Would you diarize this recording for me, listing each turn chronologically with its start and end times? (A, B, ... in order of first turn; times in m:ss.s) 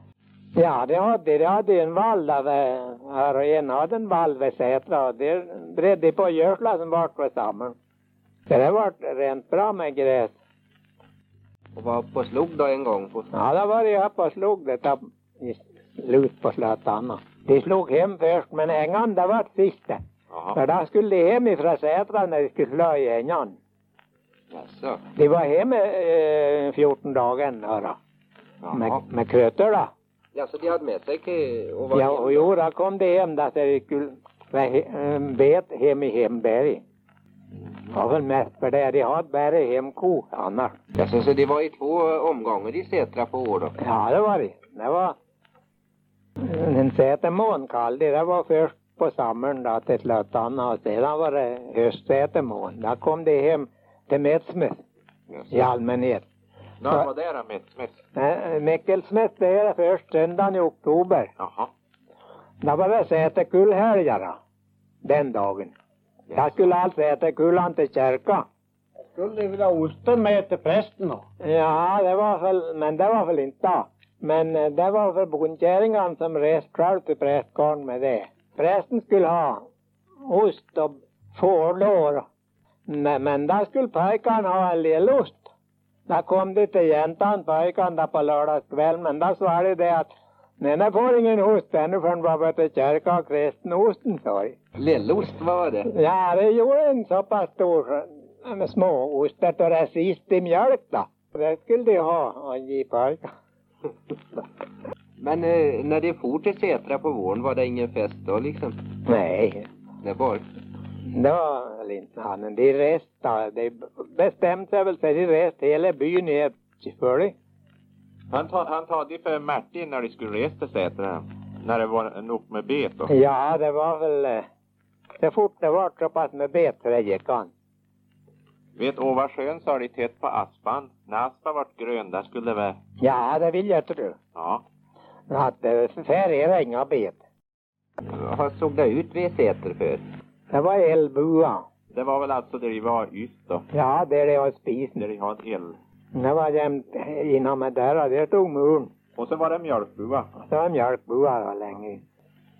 0:00.5-0:07.7 A
0:08.5-0:10.3 A
0:11.7-0:13.3 B
0:13.3-0:20.0 A
0:20.3-0:20.6 C
0:20.5-0:23.6 A
0:24.5-0:25.0 B
0:25.1-0:28.0 A
0:28.6-0:29.0 B
0:28.7-0:29.9 A
0:30.3-0:32.5 B
0:31.9-0:36.8 A
0:37.9-0:40.7 A
0:40.9-0:43.8 B
0:43.8-0:45.2 A
0:46.4-0:54.8 A
0:55.5-0:56.2 A
0:56.8-0:57.9 C
0:58.1-1:01.3 A
1:01.4-1:01.7 C
1:02.6-1:04.4 A
1:05.0-1:05.7 A
1:06.3-1:08.4 A
1:09.1-1:11.2 D
1:11.4-1:19.6 A
1:20.2-1:22.2 A
1:22.9-1:25.5 A
1:26.1-1:34.6 A
1:34.8-1:35.9 B
1:35.9-1:43.2 A
1:45.2-1:48.8 B
1:49.0-1:49.6 A
1:50.0-1:50.4 B
1:51.1-1:57.3 A
1:58.3-2:03.1 C
2:03.1-2:04.4 A
2:05.2-2:07.5 A
2:08.8-2:12.8 C
2:13.0-2:14.2 A
2:14.4-2:14.6 C
2:15.3-2:17.2 A
2:18.1-2:20.0 B
2:20.5-2:21.6 A
2:21.9-2:23.6 C
2:23.7-2:25.0 A
2:25.0-2:25.8 C
2:26.1-2:28.9 A
2:29.2-2:30.3 C
2:30.4-2:32.0 A